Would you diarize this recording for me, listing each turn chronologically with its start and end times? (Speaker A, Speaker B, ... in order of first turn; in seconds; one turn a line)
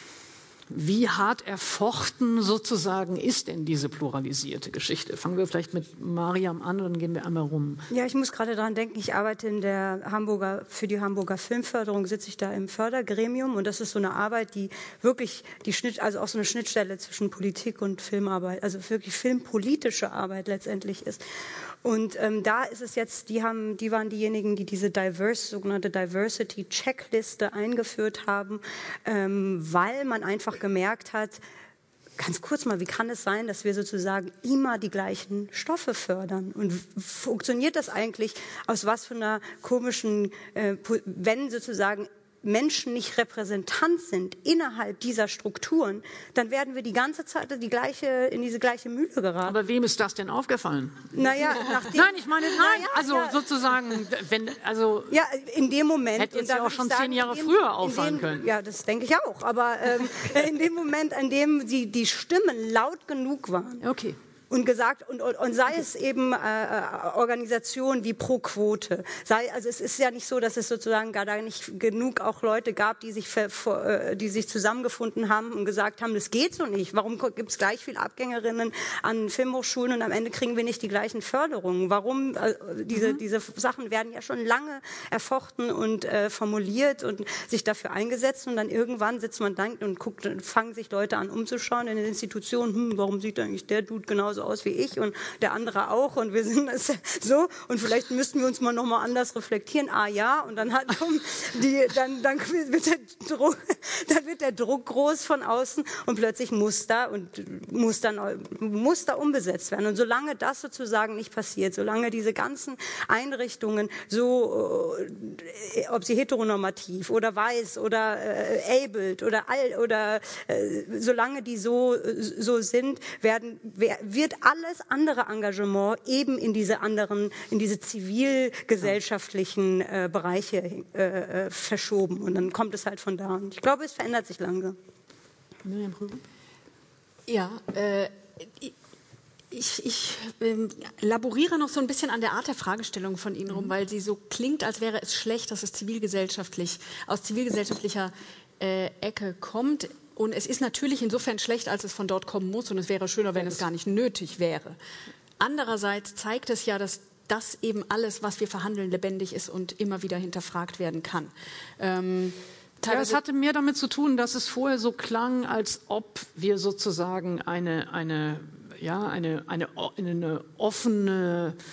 Speaker A: 0.7-7.8
Speaker B: 7.9-21.2
Speaker B: 21.8-31.4
Speaker B: 32.2-49.6
Speaker A: 49.5-55.2
Speaker B: 51.1-53.4
Speaker B: 55.1-63.8
Speaker A: 56.2-58.5
Speaker A: 63.8-64.2
Speaker B: 64.5-134.8
Speaker A: 135.6-136.2
Speaker C: 137.3-138.7
Speaker C: 139.5-154.8
Speaker C: 155.4-163.2
Speaker A: 162.9-171.6